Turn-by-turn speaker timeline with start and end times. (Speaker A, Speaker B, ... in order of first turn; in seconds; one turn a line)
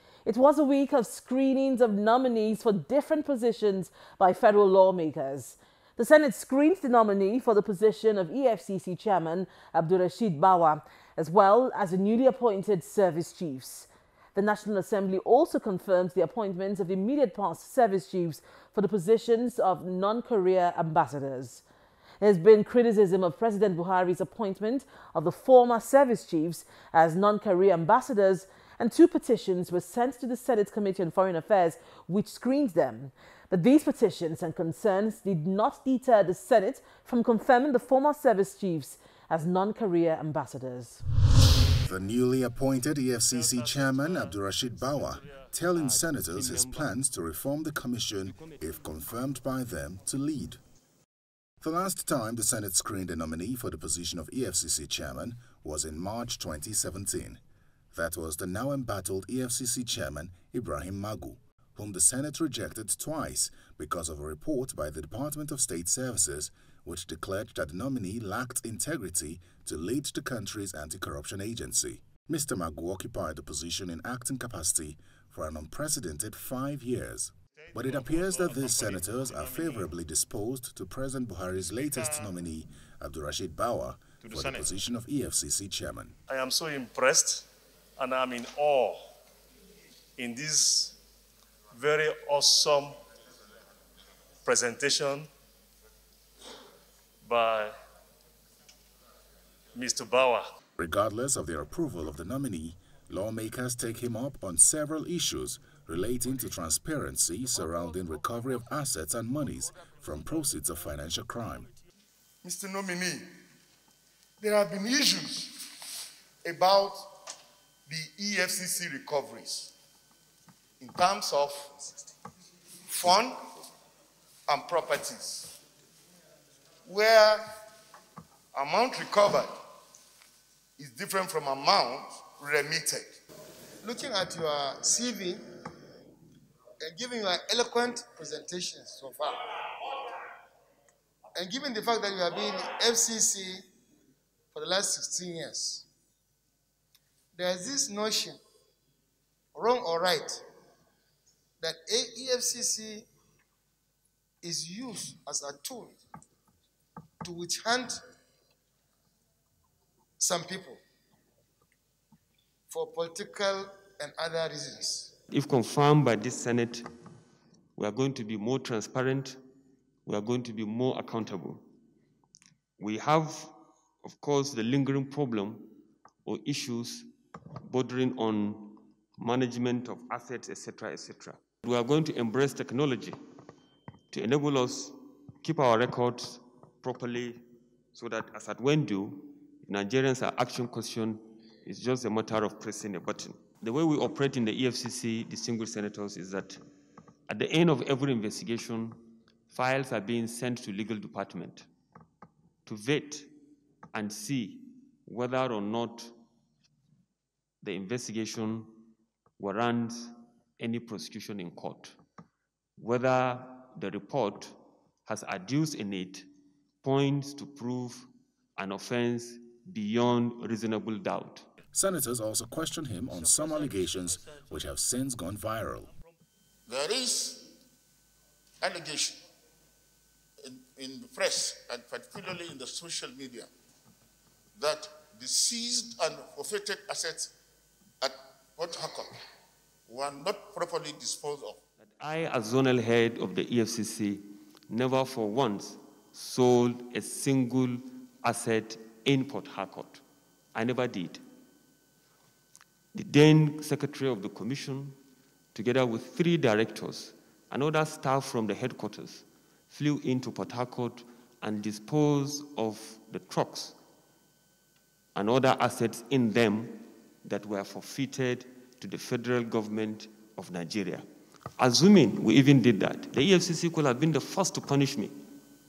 Speaker A: 0.2-21.6
Speaker A: 22.2-41.0
Speaker B: 41.9-50.6
Speaker C: 45.7-47.0
Speaker C: 48.3-48.8
Speaker B: 51.6-57.4
Speaker B: 57.9-86.1
Speaker D: 84.2-84.7
Speaker D: 86.3-87.4
Speaker D: 88.0-89.0
Speaker D: 90.2-90.9
Speaker D: 91.7-92.9
Speaker D: 94.5-95.3
Speaker D: 97.2-97.7
Speaker D: 99.7-100.4
Speaker B: 100.8-111.7
Speaker E: 112.4-113.2
Speaker E: 114.4-115.6
Speaker E: 116.4-117.1
Speaker E: 117.9-119.7
Speaker E: 120.8-121.8
Speaker E: 122.9-123.3
Speaker E: 124.5-125.5
Speaker E: 126.8-127.4
Speaker E: 128.5-129.5
Speaker E: 130.8-133.2
Speaker F: 133.8-135.4
Speaker F: 136.8-139.5
Speaker F: 141.3-143.6
Speaker F: 144.5-145.8
Speaker F: 147.3-148.4
Speaker F: 149.5-150.4
Speaker F: 151.6-153.1
Speaker F: 154.4-156.0
Speaker F: 157.2-158.0
Speaker F: 160.2-160.8
Speaker F: 162.7-165.1
Speaker C: 165.3-166.9
Speaker C: 167.8-169.4
Speaker C: 170.1-171.6
Speaker C: 172.8-175.7
Speaker C: 176.2-177.1
Speaker C: 177.6-183.2
Speaker C: 184.1-196.6
Speaker C: 197.3-201.7
Speaker C: 202.7-203.3
Speaker C: 203.9-206.2
Speaker C: 207.6-208.8
Speaker C: 209.4-212.0
Speaker C: 212.8-216.3
Speaker C: 216.8-221.5
Speaker B: 221.7-225.9
Speaker E: 226.7-227.4
Speaker E: 228.6-229.2
Speaker E: 230.4-233.5
Speaker E: 234.6-237.3
Speaker E: 238.0-239.1
Speaker E: 239.9-241.6
Speaker C: 241.8-250.0
Speaker C: 250.5-251.2
Speaker C: 252.9-255.0
Speaker C: 255.5-263.8
Speaker C: 265.1-271.1
Speaker C: 271.6-275.2